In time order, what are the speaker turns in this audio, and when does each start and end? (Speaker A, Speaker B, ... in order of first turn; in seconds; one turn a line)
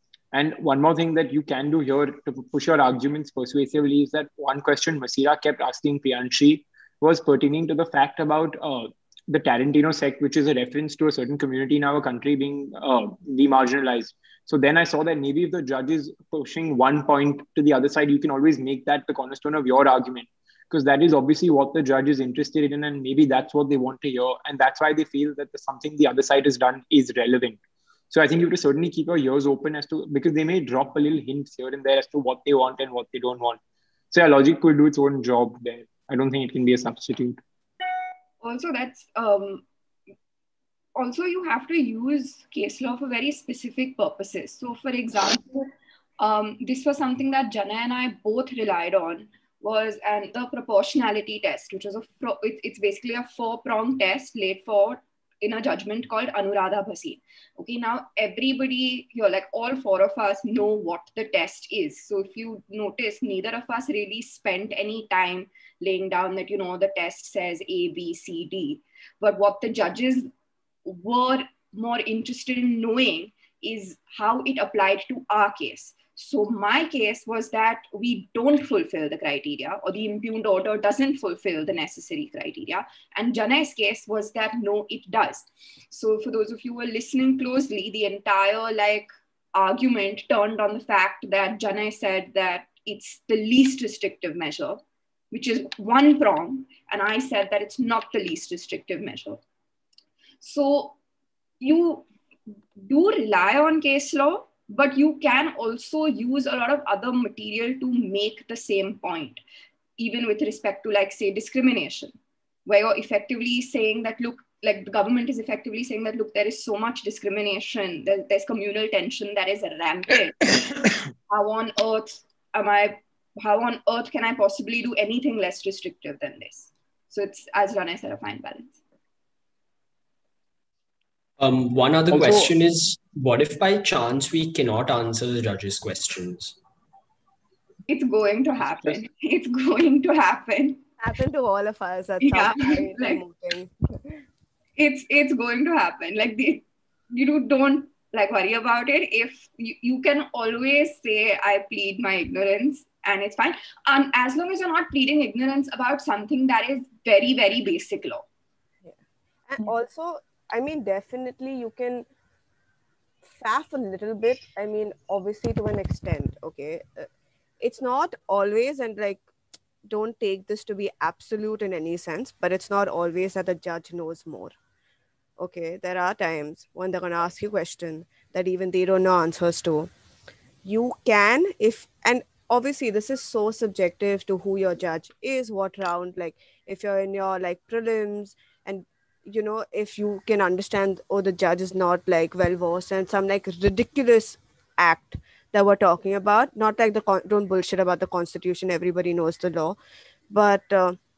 Speaker A: 0.3-33.6
Speaker A: 34.1-37.4
Speaker B: 38.4-39.6
Speaker B: 40.9-70.3
Speaker B: 70.8-99.4
Speaker B: 100.4-101.0
Speaker B: 101.6-102.1
Speaker B: 102.8-109.4
Speaker B: 110.0-112.1
Speaker B: 112.7-120.5
Speaker B: 121.3-128.8
Speaker C: 131.4-136.6
Speaker A: 132.1-132.5
Speaker B: 137.9-140.8
Speaker D: 141.0-144.2
Speaker B: 142.2-143.2
Speaker B: 144.8-158.2
Speaker D: 158.8-162.1
Speaker D: 163.2-167.1
Speaker D: 167.6-169.2
Speaker D: 169.8-174.6
Speaker D: 175.4-179.9
Speaker D: 180.6-199.8
Speaker D: 200.3-201.0